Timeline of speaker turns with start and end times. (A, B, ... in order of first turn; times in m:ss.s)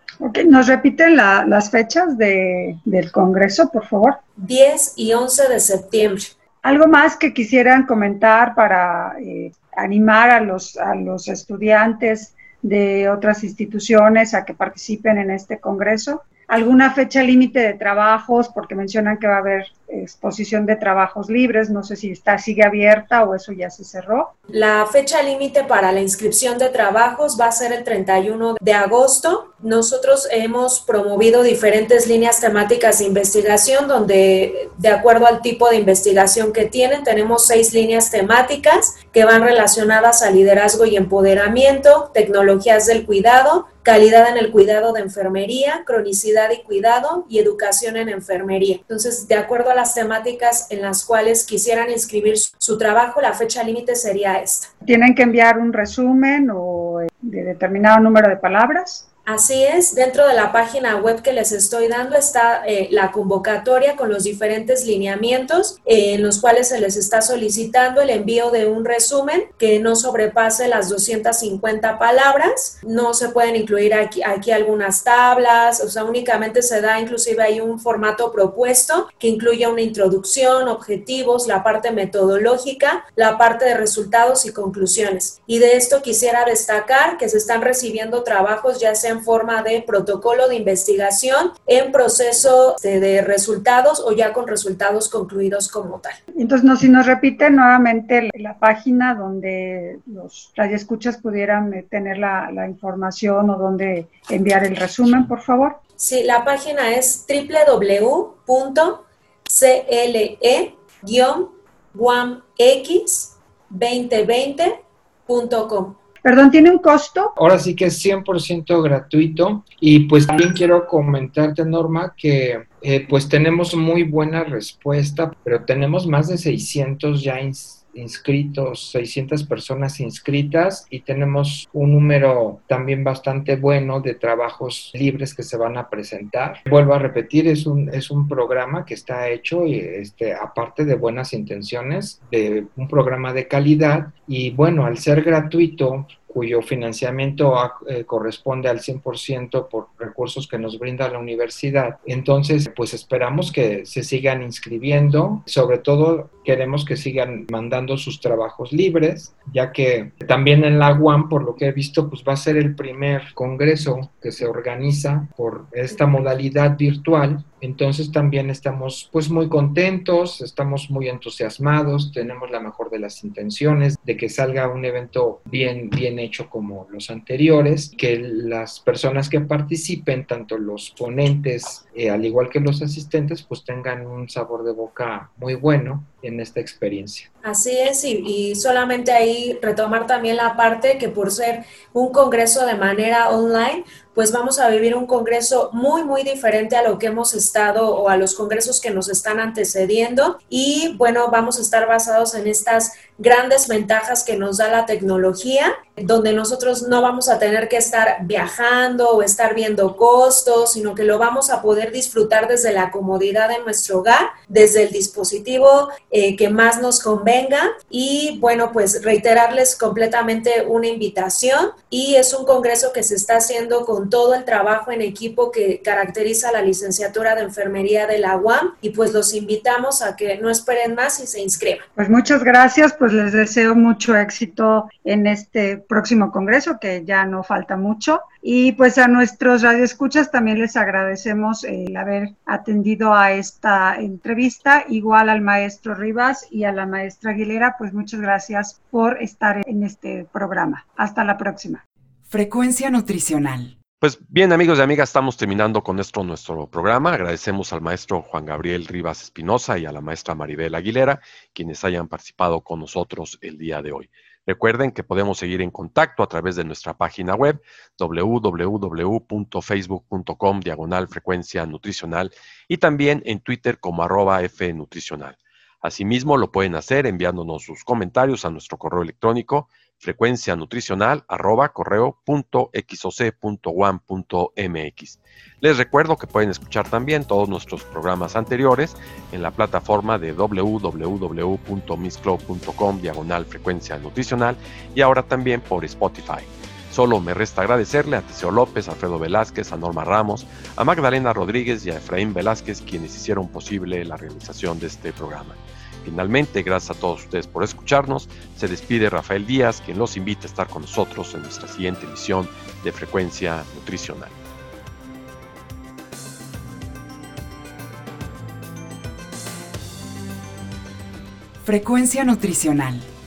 0:00.2-0:04.2 A
0:04.4-0:06.3 B
0:06.6-0:24.3 A
0:24.5-0:54.7 B
0:54.8-0:59.0 A
0:59.2-1:36.2 B
1:36.3-1:45.8 A
1:46.0-1:56.0 B
1:56.2-1:57.3 A
1:57.4-3:07.3 C
3:07.4-3:51.8 B
3:52.0-4:11.8 A
4:12.3-4:13.8 D
4:14.0-5:14.4 E
5:21.6-5:23.1 D